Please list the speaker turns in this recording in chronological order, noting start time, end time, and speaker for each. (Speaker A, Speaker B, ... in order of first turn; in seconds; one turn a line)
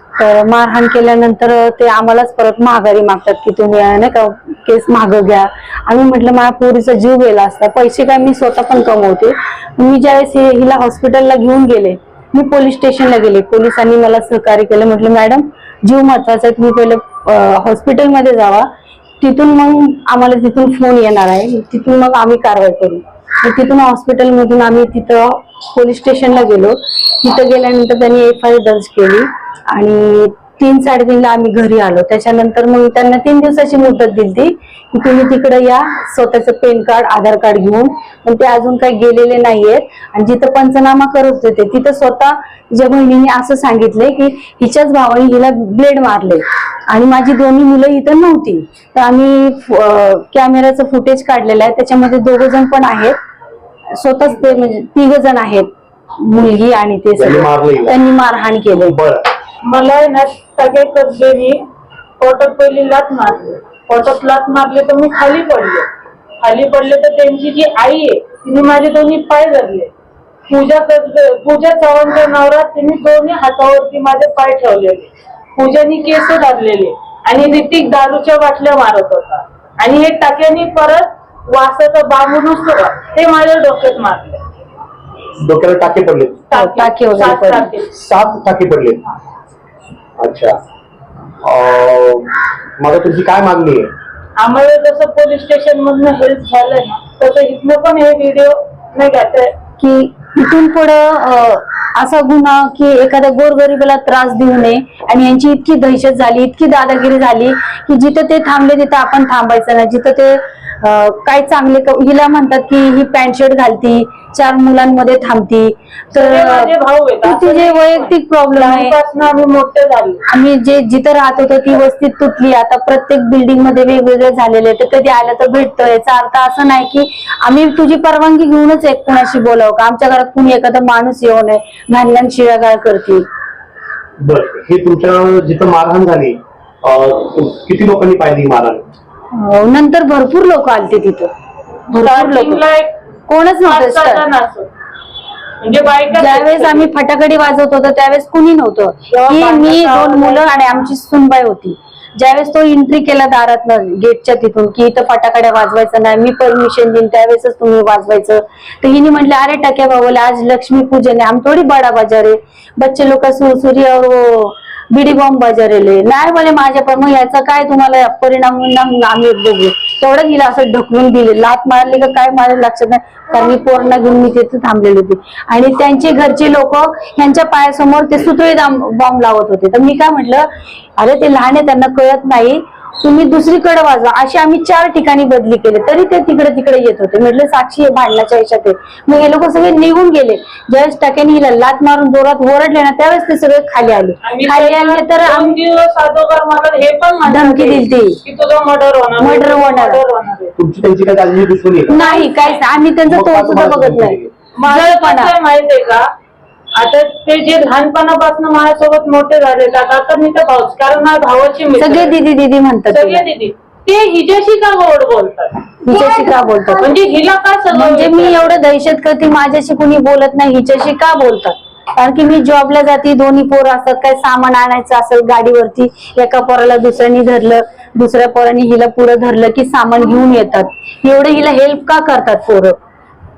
Speaker A: 0.2-18.7
Speaker A: 19.2-53.2
Speaker A: 53.9-58.9
Speaker B: 57.1-58.0
Speaker B: 58.9-59.2
Speaker C: 59.6-61.6
Speaker C: 62.2-65.9
Speaker C: 66.4-69.9
Speaker C: 70.5-84.4
Speaker B: 85.4-86.4
Speaker C: 86.5-87.9
Speaker A: 86.5-87.7
Speaker B: 87.9-89.0
Speaker B: 90.2-90.6
Speaker B: 91.4-93.9
Speaker C: 94.4-99.5
Speaker A: 99.8-116.7
Speaker C: 116.1-120.2
Speaker A: 117.2-118.9
Speaker A: 120.3-133.2
Speaker B: 134.2-138.9
Speaker A: 139.3-141.3
Speaker A: 141.9-142.6
Speaker C: 141.9-143.0
Speaker A: 143.3-144.2
Speaker C: 143.6-144.7
Speaker C: 145.6-146.9
Speaker A: 146.1-195.5
Speaker C: 149.1-150.9
Speaker C: 194.2-200.5
Speaker A: 197.2-198.2
Speaker A: 199.2-200.0
Speaker B: 200.6-202.0
Speaker C: 201.9-202.7
Speaker A: 201.9-205.3
Speaker B: 203.1-204.3
Speaker C: 204.6-206.1
Speaker C: 206.7-212.2
Speaker A: 211.8-213.2
Speaker C: 212.9-215.7
Speaker A: 215.8-216.9
Speaker C: 216.8-218.5
Speaker A: 217.7-232.8